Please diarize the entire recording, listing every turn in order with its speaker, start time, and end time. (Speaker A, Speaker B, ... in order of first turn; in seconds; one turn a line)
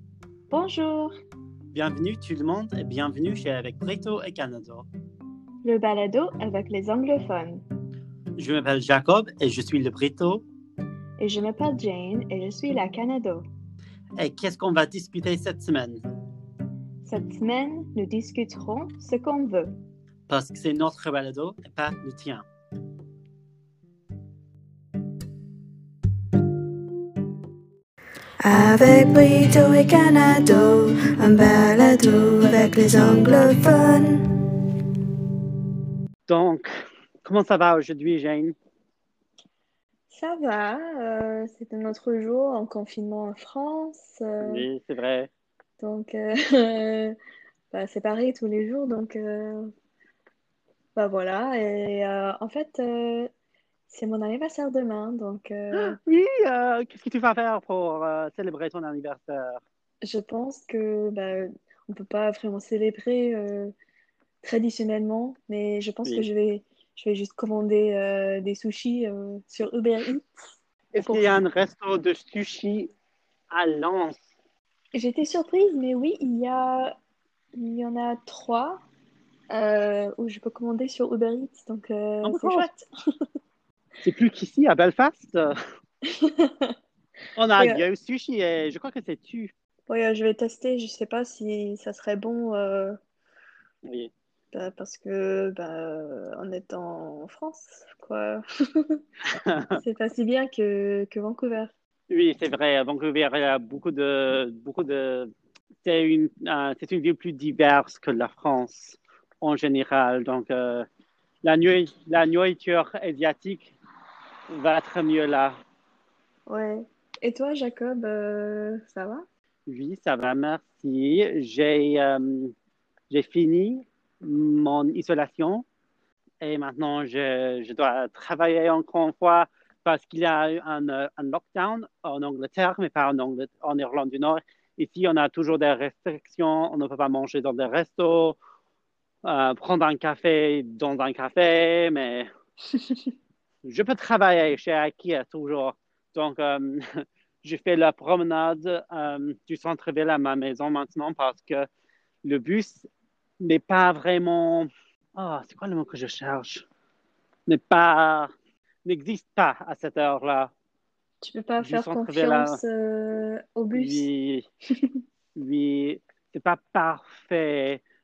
Speaker A: 0.5-1.1
Speaker B: 1.7-4.9
Speaker A: 5.6-7.6
Speaker B: 8.4-10.4
Speaker A: 11.2-13.5
Speaker B: 14.2-16.0
Speaker A: 17.1-19.8
Speaker B: 20.3-22.5
Speaker C: 28.4-34.3
Speaker B: 36.3-36.7
Speaker B: 37.2-38.6
Speaker A: 40.1-44.6
Speaker B: 44.4-45.3
Speaker A: 45.8-47.2
Speaker A: 47.7-49.7
Speaker A: 51.0-53.3
Speaker A: 53.9-56.0
Speaker B: 55.7-59.6
Speaker A: 60.0-63.7
Speaker A: 64.4-70.5
Speaker B: 70.9-72.9
Speaker B: 73.5-74.2
Speaker A: 74.9-77.0
Speaker A: 77.5-78.8
Speaker A: 79.5-82.9
Speaker B: 82.2-82.7
Speaker B: 84.0-85.6
Speaker A: 86.1-86.8
Speaker B: 87.4-89.5
Speaker A: 87.6-87.8
Speaker A: 89.9-93.0
Speaker B: 93.8-94.1
Speaker A: 94.5-99.0
Speaker B: 99.3-99.8
Speaker A: 99.7-101.7
Speaker B: 102.1-105.3
Speaker B: 105.8-110.9
Speaker B: 111.4-113.7
Speaker B: 114.5-115.6
Speaker A: 116.5-119.2
Speaker B: 119.7-122.5
Speaker B: 123.1-125.7
Speaker B: 126.4-138.4
Speaker B: 139.2-142.3
Speaker B: 143.6-151.7
Speaker B: 152.2-152.9
Speaker B: 153.4-156.7
Speaker B: 157.5-158.3
Speaker B: 158.8-160.5
Speaker A: 161.2-164.1
Speaker B: 161.6-162.6
Speaker B: 163.8-164.5
Speaker B: 165.4-167.8